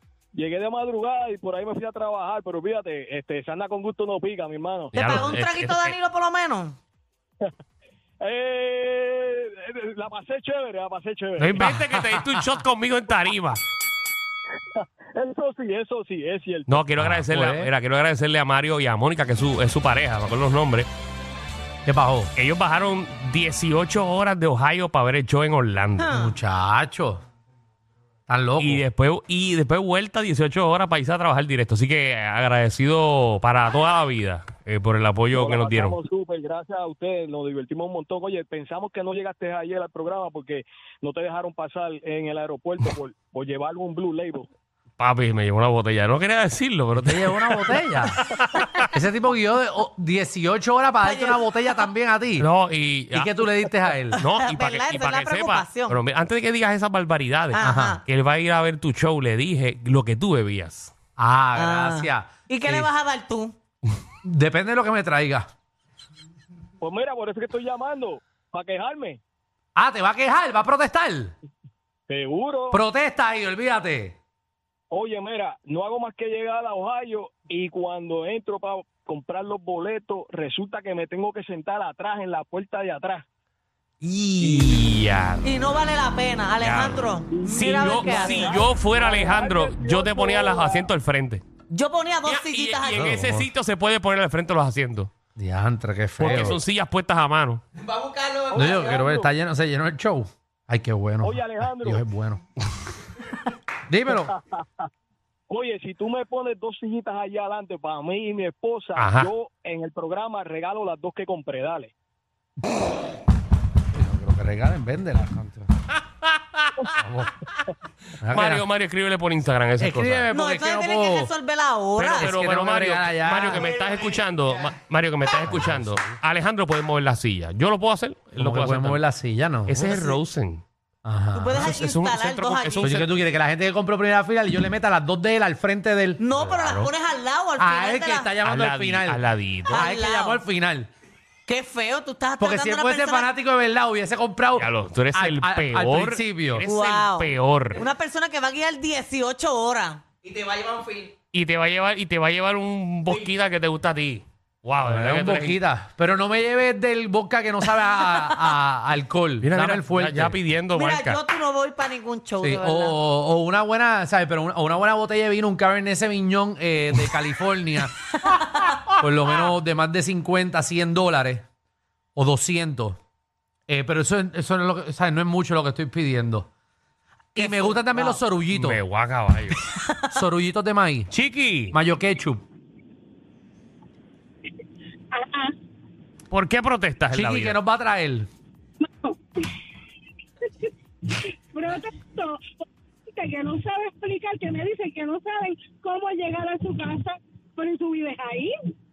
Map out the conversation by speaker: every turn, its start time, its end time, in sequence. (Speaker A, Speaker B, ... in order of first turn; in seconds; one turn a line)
Speaker A: 0.3-5.3
Speaker B: 4.9-6.0
Speaker C: 4.9-6.8
Speaker A: 8.2-12.5
Speaker B: 11.4-13.6
Speaker D: 11.6-11.9
Speaker A: 14.8-16.7
Speaker B: 16.7-20.9
Speaker D: 17.0-17.7
Speaker D: 21.9-22.3
Speaker B: 22.4-26.1
Speaker C: 26.0-26.4
Speaker D: 26.1-27.2
Speaker D: 28.3-28.8
Speaker B: 28.6-36.0
Speaker A: 35.3-44.5
Speaker B: 45.0-48.9
Speaker D: 47.0-48.2
Speaker D: 48.7-52.5
Speaker C: 51.0-51.9
Speaker B: 52.4-53.3
Speaker D: 53.1-54.2
Speaker C: 54.2-56.0
Speaker B: 54.2-60.9
Speaker C: 57.5-58.0
Speaker D: 57.6-58.0
Speaker D: 61.2-62.9
Speaker C: 61.5-63.6
Speaker D: 64.2-65.5
Speaker A: 66.8-69.2
Speaker D: 69.8-71.3
Speaker A: 72.1-72.8
Speaker D: 72.7-74.2
Speaker A: 74.9-83.2
Speaker B: 84.0-85.5
Speaker A: 84.4-84.8
Speaker C: 85.4-88.6
Speaker B: 86.6-91.4
Speaker A: 87.3-90.9
Speaker C: 91.7-93.1
Speaker B: 92.2-95.1
Speaker D: 92.9-93.5
Speaker D: 95.4-96.6
Speaker B: 96.2-97.6
Speaker A: 98.4-99.3
Speaker D: 98.6-102.4
Speaker A: 101.2-102.0
Speaker D: 103.9-104.3
Speaker A: 104.1-104.9
Speaker A: 105.5-111.9
Speaker B: 109.0-109.3
Speaker D: 113.9-115.7
Speaker D: 117.0-117.3
Speaker D: 118.2-118.7
Speaker B: 118.3-120.3
Speaker D: 119.8-121.3
Speaker C: 120.3-122.3
Speaker B: 122.0-129.0
Speaker D: 122.2-123.7
Speaker D: 125.4-126.1
Speaker D: 128.4-130.0
Speaker B: 129.7-130.6
Speaker D: 131.1-131.7
Speaker C: 131.3-132.9
Speaker B: 131.5-133.1
Speaker D: 132.8-136.2
Speaker C: 136.2-138.4
Speaker B: 136.3-136.9
Speaker D: 137.6-140.9
Speaker B: 138.4-139.8
Speaker C: 139.7-140.4
Speaker C: 141.5-143.3
Speaker D: 142.4-146.7
Speaker B: 144.6-147.8
Speaker C: 146.7-150.0
Speaker B: 151.3-155.6
Speaker D: 154.8-160.4
Speaker B: 159.4-161.2
Speaker C: 160.8-163.0
Speaker D: 162.4-171.4
Speaker C: 168.2-168.7
Speaker D: 172.2-173.0
Speaker D: 173.7-176.5
Speaker D: 177.3-178.8
Speaker C: 177.4-178.2
Speaker B: 178.5-179.6
Speaker D: 180.0-181.1
Speaker B: 181.1-181.8
Speaker D: 181.7-182.4
Speaker E: 185.1-185.5
Speaker B: 186.3-187.6
Speaker D: 187.1-188.3
Speaker E: 188.8-189.4
Speaker E: 191.1-192.4
Speaker E: 193.2-198.6